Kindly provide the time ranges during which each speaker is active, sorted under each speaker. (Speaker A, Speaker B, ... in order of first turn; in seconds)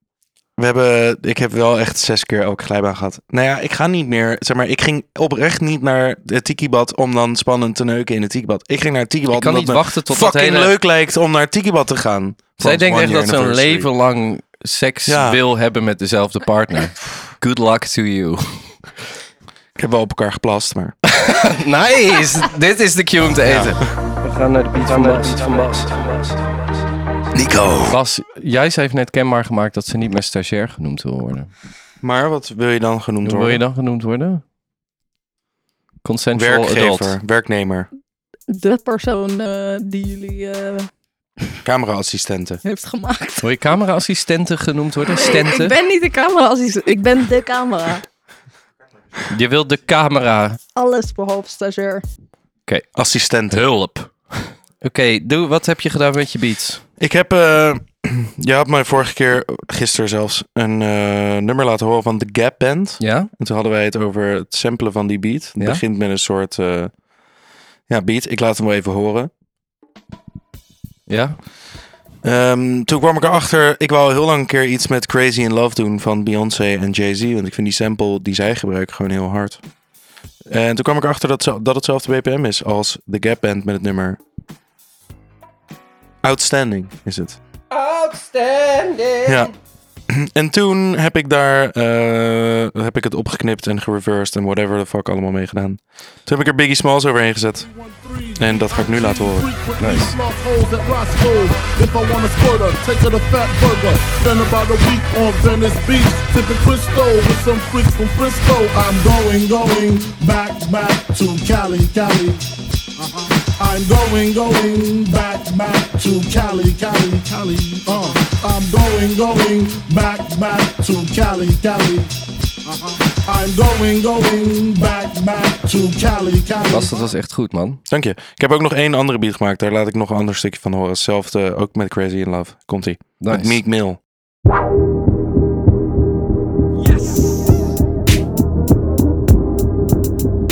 Speaker A: 0.6-13.9, 15.1-15.4, 19.8-21.0, 23.4-23.9, 27.3-28.0, 32.0-33.6, 36.4-37.9, 41.6-42.6, 53.0-53.6, 57.0-66.9, 67.9-69.3, 72.2-79.6, 80.5-84.2, 86.2-87.4, 89.3-89.5, 90.1-97.7, 98.4-99.5, 127.9-134.0
Speaker B: 9.3-10.7, 12.6-18.8, 21.1-26.4, 27.9-31.5, 33.2-34.4, 36.0-37.2, 43.4-45.8, 49.3-50.6, 53.5-56.8, 63.0-63.3, 71.1-71.4, 87.7-89.5, 99.8-100.1, 126.7-127.8, 133.2-133.6
Speaker C: 38.5-40.9, 42.6-43.5, 45.1-48.0, 50.8-52.0
Speaker D: 97.7-112.5, 113.0-122.1, 122.7-127.0